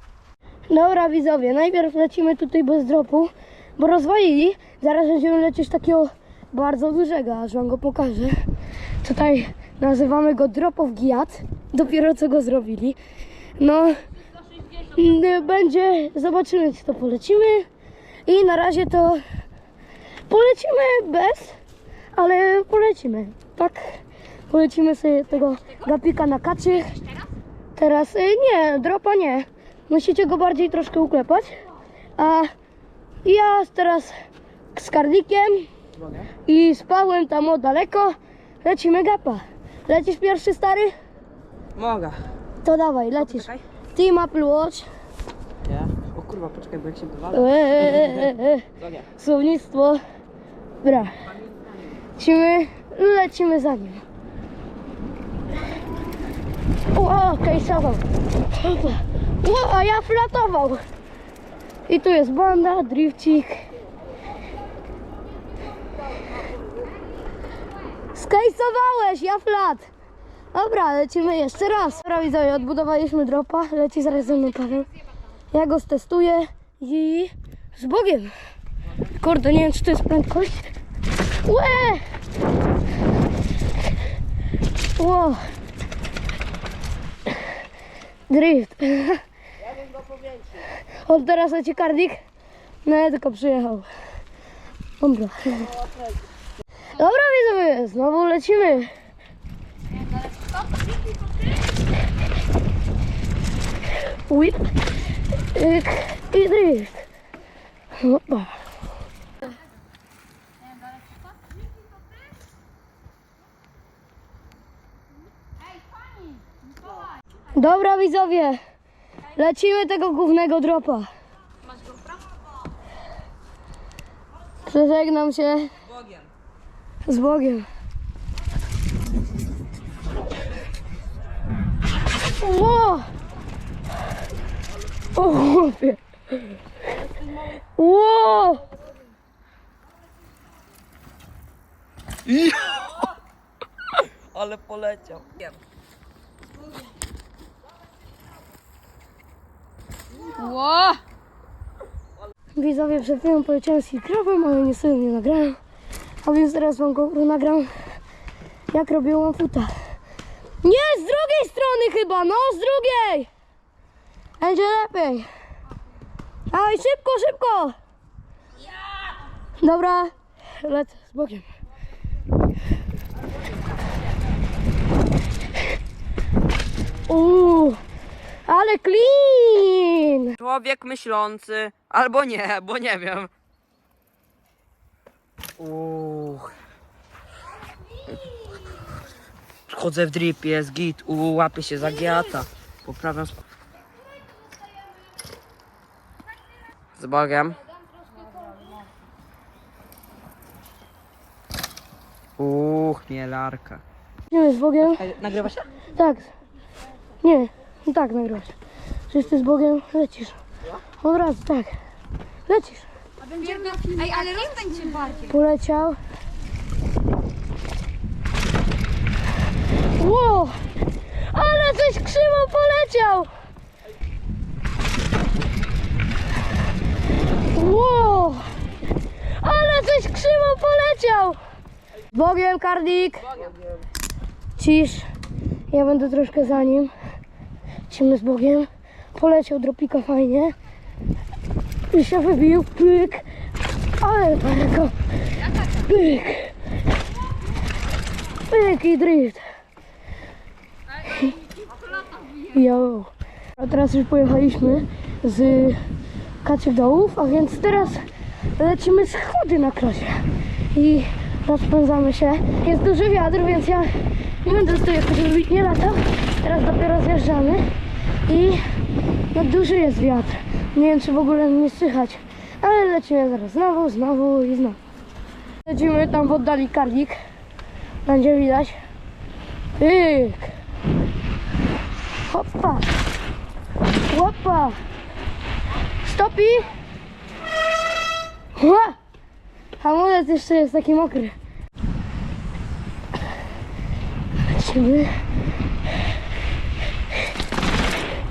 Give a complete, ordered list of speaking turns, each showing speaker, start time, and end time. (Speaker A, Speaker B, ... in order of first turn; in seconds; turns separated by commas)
Speaker A: 0.7-8.4, Speaker A: 9.0-13.0, Speaker A: 13.6-14.0, Speaker A: 14.8-17.7, Speaker A: 18.3-19.2, Speaker A: 20.3-21.6, Speaker A: 22.1-27.0, Speaker A: 27.8-31.5, Speaker A: 32.2-32.5, Speaker A: 33.2-34.1, Speaker A: 34.8-35.7, Speaker B: 36.0-36.3, Speaker A: 36.5-40.9, Speaker B: 41.8-42.2, Speaker A: 42.6-44.9, Speaker B: 43.2-43.6, Speaker B: 45.7-48.3, Speaker A: 47.3-48.6, Speaker B: 48.8-49.1, Speaker A: 49.2-50.0, Speaker A: 50.8-51.1, Speaker A: 52.2-54.0, Speaker A: 56.9-58.0, Speaker A: 58.5-60.8, Speaker A: 61.9-63.6, Speaker A: 68.1-69.9, Speaker A: 70.5-74.9, Speaker A: 75.5-78.3, Speaker A: 79.1-80.7, Speaker A: 81.5-82.0, Speaker A: 85.0-85.4, Speaker A: 88.3-89.2, Speaker A: 91.0-92.2, Speaker A: 92.8-93.9, Speaker A: 95.0-95.8, Speaker A: 96.9-98.9, Speaker C: 100.0-100.7, Speaker A: 104.3-104.6, Speaker A: 105.5-107.0, Speaker A: 108.0-108.6, Speaker A: 117.5-118.6, Speaker A: 119.3-121.1, Speaker A: 124.7-125.7, Speaker A: 127.0-127.7, Speaker A: 132.4-133.1, Speaker A: 135.1-136.5, Speaker A: 137.8-138.6, Speaker B: 142.3-142.9, Speaker B: 144.3-145.3, Speaker C: 150.4-151.0, Speaker A: 152.6-155.6, Speaker A: 156.2-157.7, Speaker A: 158.7-159.7, Speaker A: 160.6-163.3, Speaker A: 164.4-165.3, Speaker A: 166.5-167.7, Speaker A: 169.6-171.4, Speaker A: 177.1-177.8, Speaker A: 178.5-180.4, Speaker B: 180.4-183.3, Speaker B: 185.6-186.5, Speaker B: 189.7-193.3, Speaker B: 197.0-197.6, Speaker B: 202.4-203.8, Speaker A: 204.3-205.0, Speaker B: 204.8-205.7, Speaker A: 205.9-206.3, Speaker A: 207.2-208.6, Speaker A: 209.1-210.4, Speaker A: 211.0-211.8, Speaker A: 212.5-212.9, Speaker C: 213.2-215.3, Speaker A: 215.3-216.0, Speaker A: 220.0-220.6, Speaker A: 221.3-223.3, Speaker A: 227.5-228.4, Speaker A: 229.4-231.4, Speaker A: 232.1-233.3, Speaker A: 234.6-235.1, Speaker A: 235.7-236.9, Speaker A: 237.9-240.6, Speaker A: 241.9-243.3, Speaker A: 244.0-244.9, Speaker A: 245.7-246.5, Speaker A: 248.5-249.4, Speaker A: 252.4-255.8, Speaker A: 256.4-258.0, Speaker A: 258.6-263.9, Speaker A: 264.4-267.6, Speaker A: 268.3-268.6, Speaker A: 269.3-274.8, Speaker A: 275.7-277.2, Speaker A: 278.1-278.8, Speaker A: 279.8-280.5, Speaker A: 282.3-282.9, Speaker A: 284.1-284.8, Speaker A: 286.1-286.7, Speaker A: 288.6-288.9, Speaker A: 289.8-291.3, Speaker A: 294.5-295.1